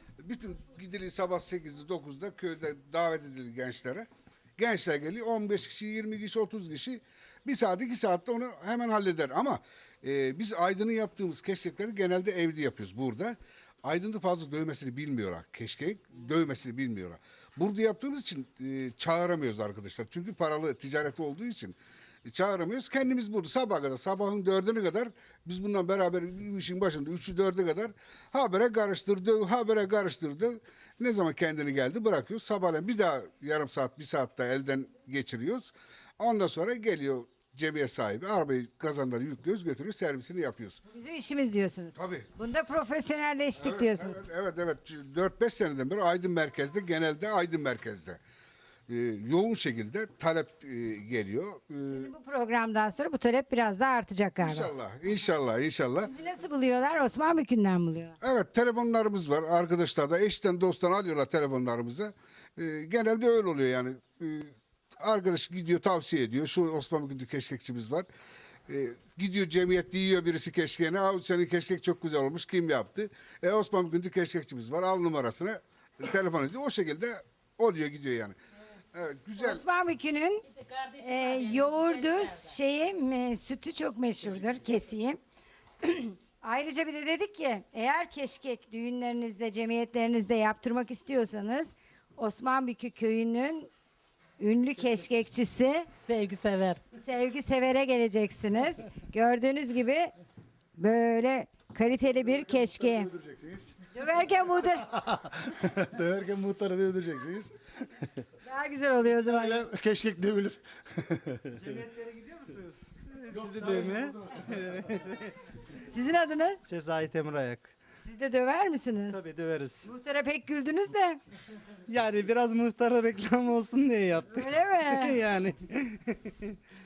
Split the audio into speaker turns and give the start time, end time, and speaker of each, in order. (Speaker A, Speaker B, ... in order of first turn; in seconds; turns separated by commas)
Speaker A: 0.2-4.1, Speaker A: 4.6-40.8, Speaker B: 40.9-44.2, Speaker A: 42.0-42.3, Speaker A: 43.5-48.2, Speaker A: 48.9-52.1, Speaker B: 51.9-54.7, Speaker A: 54.4-56.1, Speaker B: 56.0-58.2, Speaker A: 58.2-68.1, Speaker A: 68.7-78.3, Speaker A: 78.9-79.6, Speaker B: 79.3-80.4, Speaker C: 80.5-82.5, Speaker B: 81.0-85.2, Speaker B: 85.8-93.7, Speaker B: 94.4-95.9, Speaker C: 96.0-96.8, Speaker B: 96.9-100.1, Speaker B: 100.8-103.1, Speaker D: 102.2-107.5, Speaker B: 103.9-104.9, Speaker B: 108.4-109.7, Speaker D: 109.2-111.6, Speaker E: 111.6-115.3, Speaker D: 113.3-114.5, Speaker B: 115.9-116.6, Speaker E: 116.7-117.7, Speaker B: 118.0-119.2, Speaker E: 119.1-119.9, Speaker B: 119.8-121.2, Speaker E: 121.9-126.5, Speaker B: 124.3-125.2